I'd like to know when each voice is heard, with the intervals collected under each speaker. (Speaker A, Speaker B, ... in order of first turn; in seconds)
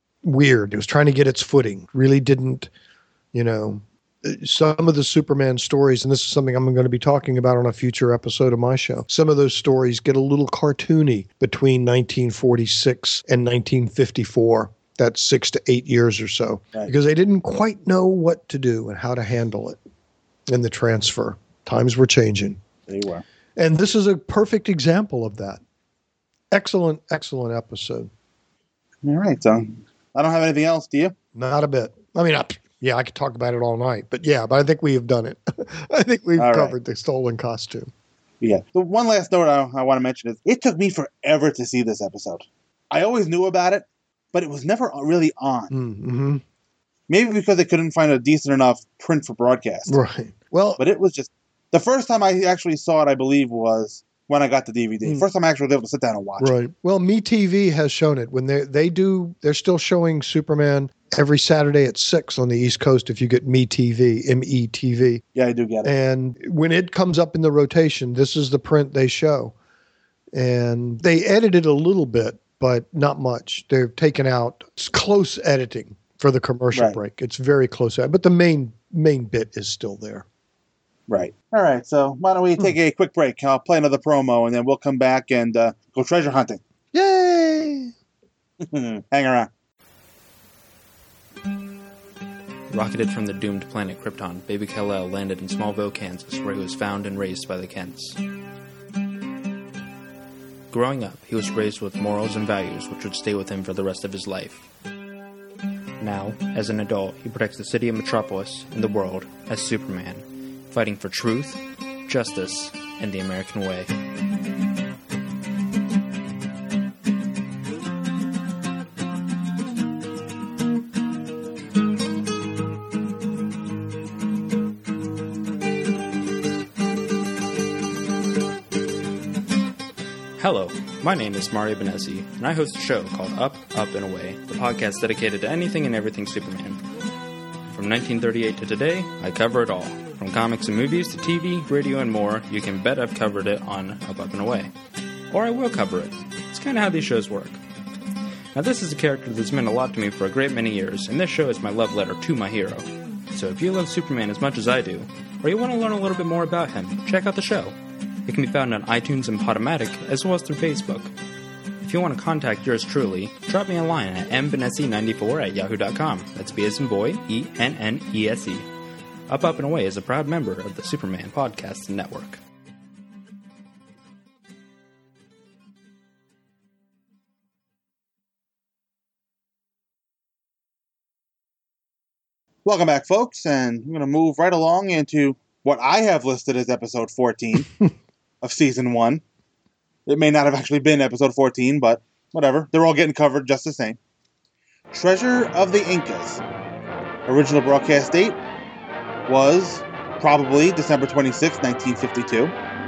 Speaker A: 0.2-2.7, 3.3-19.8, 20.5-22.6, 23.6-25.6, 26.5-28.1, 31.3-37.9, 45.7-46.4, 49.9-50.8, 56.4-65.2, 65.8-69.5, 70.3-80.2, 86.9-87.9
Speaker B: 22.9-23.2, 29.0-31.1, 36.4-36.7, 38.4-45.7, 47.1-50.0, 50.8-56.5, 65.3-65.9, 81.1-86.6, 88.6-89.5, 182.7-187.7, 188.4-189.2, 190.1-194.0, 194.9-196.4, 197.3-198.4, 199.3-202.5
Speaker C: 92.7-98.2, 100.7-104.7, 106.0-113.9, 130.4-136.8, 137.7-144.7, 145.3-147.6, 148.5-161.1, 161.8-168.7, 169.3-172.4